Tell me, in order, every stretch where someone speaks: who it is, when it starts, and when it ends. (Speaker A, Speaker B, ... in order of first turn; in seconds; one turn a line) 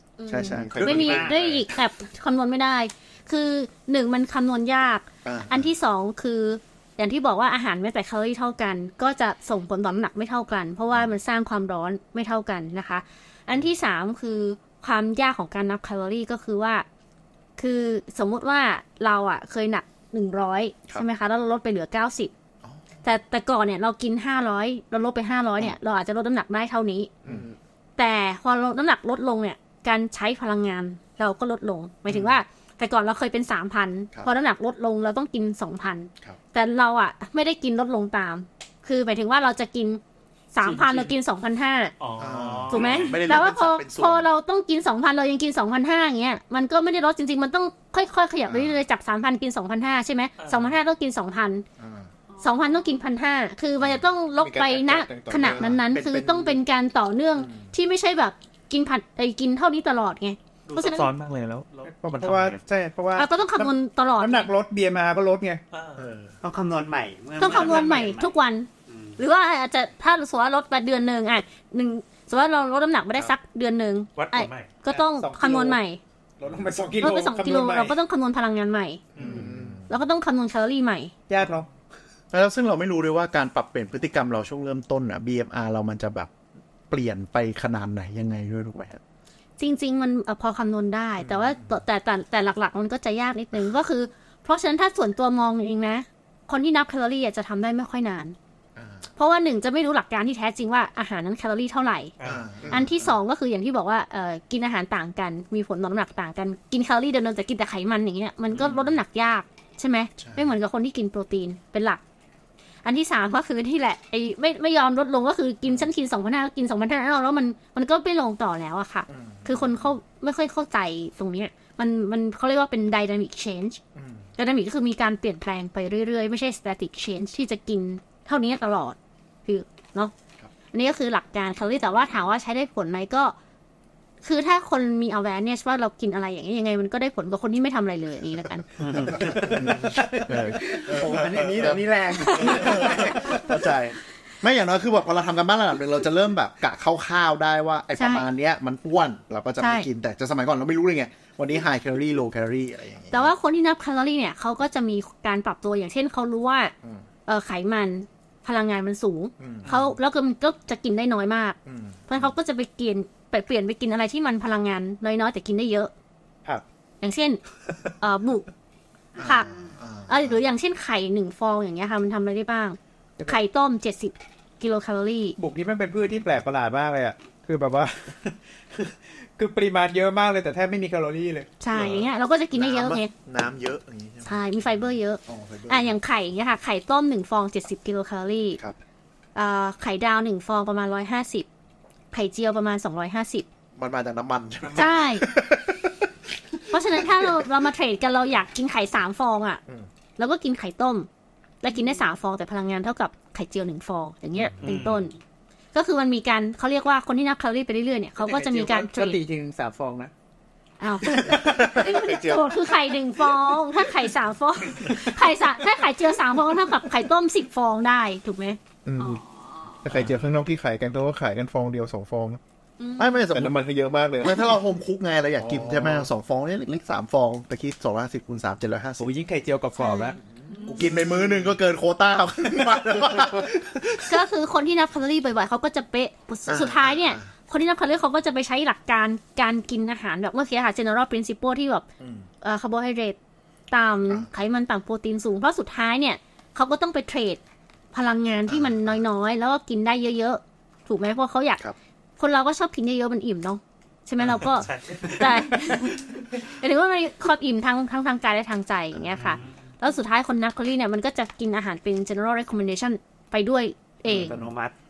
Speaker A: 0.2-16.9
Speaker B: 0.3-1.3
Speaker C: 0.8-1.6
Speaker D: 0.9-1.3
Speaker B: 5.2-5.7
Speaker A: 17.6-22.3
Speaker A: 23.0-27.1
Speaker B: 27.2-27.5
Speaker A: 28.0-40.0
Speaker B: 32.1-32.4
Speaker A: 40.5-41.9
Speaker C: 40.6-41.1
Speaker C: 42.0-43.2
Speaker B: 42.2-44.3
Speaker A: 42.7-51.6
Speaker B: 48.5-48.8
Speaker C: 50.4-50.7
Speaker B: 51.8-52.1
Speaker A: 52.4-61.1
Speaker E: 54.4-55.7
Speaker B: 55.4-56.6
Speaker B: 57.4-57.7
Speaker C: 60.7-62.6
Speaker F: 61.9-65.6
Speaker A: 63.1-64.5
Speaker C: 65.7-66.0
Speaker B: 66.0-66.3
Speaker D: 66.4-68.3
Speaker A: 67.4-76.0
Speaker C: 67.5-67.8
Speaker D: 68.9-69.2
Speaker C: 74.2-74.7
Speaker F: 74.9-75.8
Speaker F: 76.4-78.0
Speaker A: 77.0-79.0
Speaker C: 79.2-79.5
Speaker B: 79.2-79.9
Speaker A: 79.9-81.1
Speaker F: 81.3-81.7
Speaker B: 82.3-86.3
Speaker B: 86.9-89.0
Speaker A: 89.6-98.4
Speaker B: 91.2-91.8
Speaker B: 98.8-99.1
Speaker A: 99.2-102.1
Speaker C: 102.2-102.5
Speaker B: 102.2-103.2
Speaker A: 102.7-112.0
Speaker B: 108.5-108.9
Speaker B: 110.2-110.5
Speaker A: 112.8-123.8
Speaker B: 119.1-119.9
Speaker B: 124.0-124.3
Speaker A: 124.4-130.1
Speaker A: 130.7-133.3
Speaker A: 134.2-138.6
Speaker D: 138.8-139.7
Speaker B: 139.1-140.0
Speaker F: 139.2-140.8
Speaker D: 140.5-143.1
Speaker B: 140.9-153.3
Speaker C: 141.1-141.5
Speaker A: 142.2-143.4
Speaker A: 148.0-148.3
Speaker A: 149.6-149.9
Speaker A: 153.1-156.7
Speaker A: 157.3-161.6
Speaker B: 159.4-159.9
Speaker B: 161.7-162.3
Speaker A: 162.1-165.9
Speaker A: 167.0-167.4
Speaker A: 168.0-168.5
Speaker B: 169.2-170.4
Speaker A: 169.2-169.5
Speaker A: 170.1-175.4
Speaker F: 175.4-181.5
Speaker A: 181.6-183.1
Speaker B: 182.5-184.7
Speaker A: 184.2-188.6
Speaker B: 185.3-185.9
Speaker A: 189.3-191.5
Speaker A: 192.1-193.4
Speaker B: 193.8-196.1
Speaker A: 194.8-195.3
Speaker A: 196.7-199.6
Speaker B: 196.9-197.4
Speaker A: 200.2-201.1
Speaker A: 201.6-205.1
Speaker C: 204.6-205.0
Speaker A: 205.7-209.2
Speaker F: 208.2-210.1
Speaker A: 210.8-218.6
Speaker B: 211.2-211.9
Speaker E: 211.9-212.6
Speaker E: 218.9-219.2
Speaker E: 219.8-222.4
Speaker A: 222.8-223.2
Speaker B: 223.0-223.6
Speaker E: 223.3-224.6
Speaker B: 224.2-229.1
Speaker E: 225.4-226.1
Speaker F: 229.0-230.2
Speaker A: 229.8-230.9
Speaker B: 230.6-234.1
Speaker A: 234.1-241.9
Speaker B: 236.5-237.3
Speaker B: 242.0-242.3
Speaker A: 242.4-243.2
Speaker A: 243.7-247.4
Speaker A: 247.9-251.6
Speaker B: 248.5-248.9
Speaker A: 252.2-264.4
Speaker C: 254.5-255.4
Speaker C: 259.2-259.5
Speaker D: 264.1-264.8
Speaker B: 264.1-264.5